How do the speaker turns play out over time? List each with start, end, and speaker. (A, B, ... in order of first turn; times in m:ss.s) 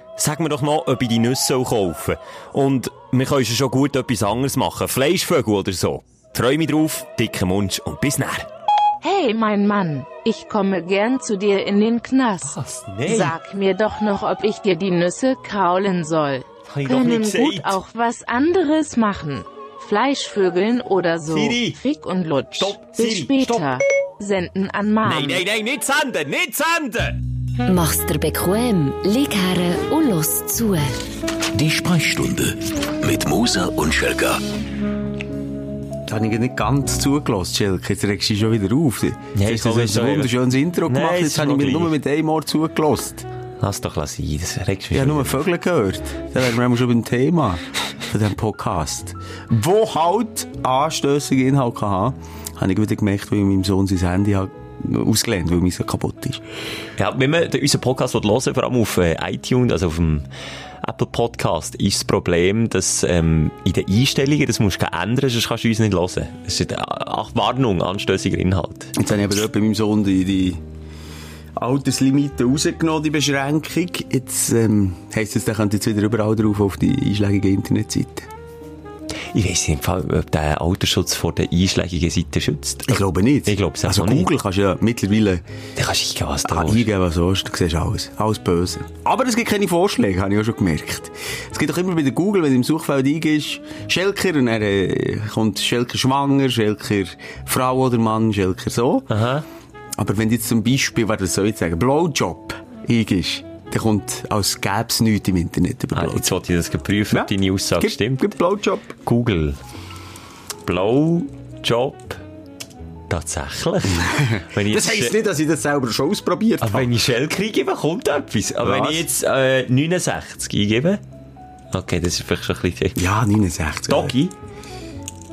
0:00.2-0:08.5 A
0:09.0-0:12.5 B
0:12.4-0:13.3 A
0:13.0-0:25.4 B
0:16.7-0:17.8 A
0:21.3-0:21.8 A
0:22.6-0:23.7 A
0:25.0-0:27.2 A
0:27.6-0:31.0 C
0:31.5-0:34.4 D
0:36.1-0:43.3 E
0:39.3-0:41.9 A
0:43.6-0:45.4 A
0:44.9-0:56.4 E
0:57.0-1:00.3 A
1:00.8-1:08.9 A
1:08.9-1:10.6 E
1:11.6-1:18.3 E
1:19.3-1:24.3 A
1:22.9-1:25.4 E
1:25.8-1:26.9 A
1:26.4-1:39.1 E
1:39.1-1:39.4 A
1:40.0-1:46.3 E
1:45.9-1:48.3 A
1:47.1-1:48.9 E
1:49.0-1:49.6 A
1:50.6-1:52.2 A
1:53.1-1:55.2 A
1:53.9-1:56.9 E
1:56.6-2:01.0 A
1:58.6-1:59.1 E
2:01.7-2:03.0 A
2:03.0-2:04.1 E
2:03.9-2:04.3 A